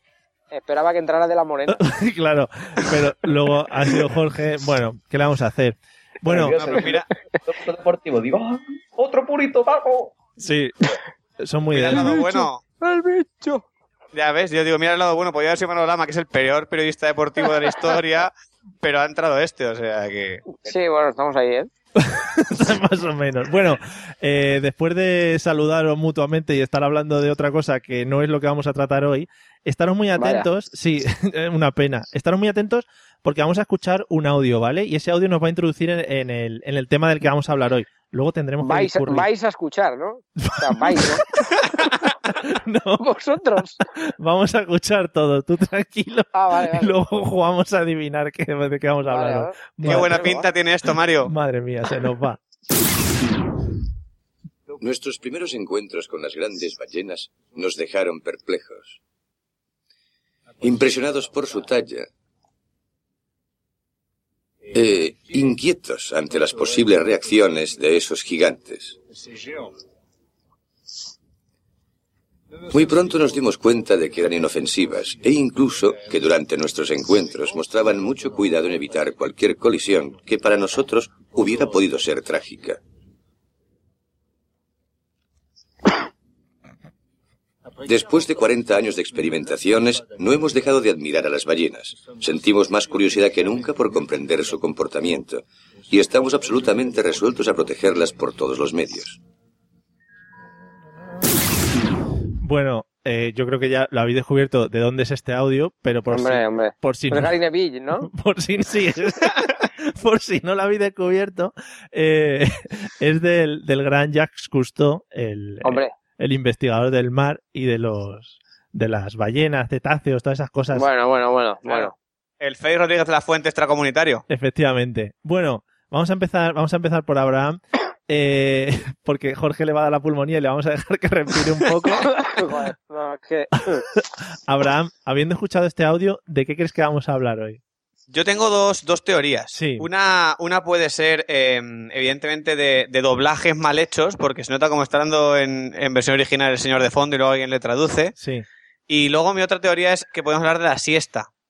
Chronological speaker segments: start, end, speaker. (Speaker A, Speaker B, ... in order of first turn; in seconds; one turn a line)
Speaker A: 0.5-1.8
Speaker B: 1.7-6.8
Speaker C: 6.2-10.2
Speaker D: 6.6-7.1
Speaker B: 10.4-12.4
Speaker D: 11.7-12.6
Speaker A: 11.9-13.6
Speaker D: 14.1-20.6
Speaker A: 20.6-21.7
Speaker B: 21.9-39.3
Speaker A: 30.2-30.5
Speaker A: 38.6-41.2
Speaker B: 40.4-41.1
Speaker B: 41.8-43.0
Speaker A: 43.0-43.8
Speaker B: 44.2-50.3
Speaker A: 46.3-47.0
Speaker A: 49.0-50.5
Speaker D: 49.8-51.3
Speaker B: 51.2-52.4
Speaker E: 54.8-59.0
Speaker E: 60.6-62.1
Speaker E: 64.7-69.0
Speaker E: 72.7-82.8
Speaker E: 87.8-99.2
Speaker B: 102.4-107.3
Speaker A: 106.1-108.1
Speaker B: 108.0-120.8
Speaker A: 115.6-115.9
Speaker A: 120.7-121.9
Speaker D: 121.7-124.2
Speaker B: 124.3-132.2
Speaker A: 132.1-133.8
Speaker B: 133.9-137.6
Speaker D: 138.1-148.1
Speaker B: 139.5-139.9
Speaker B: 148.2-148.4
Speaker D: 148.9-151.3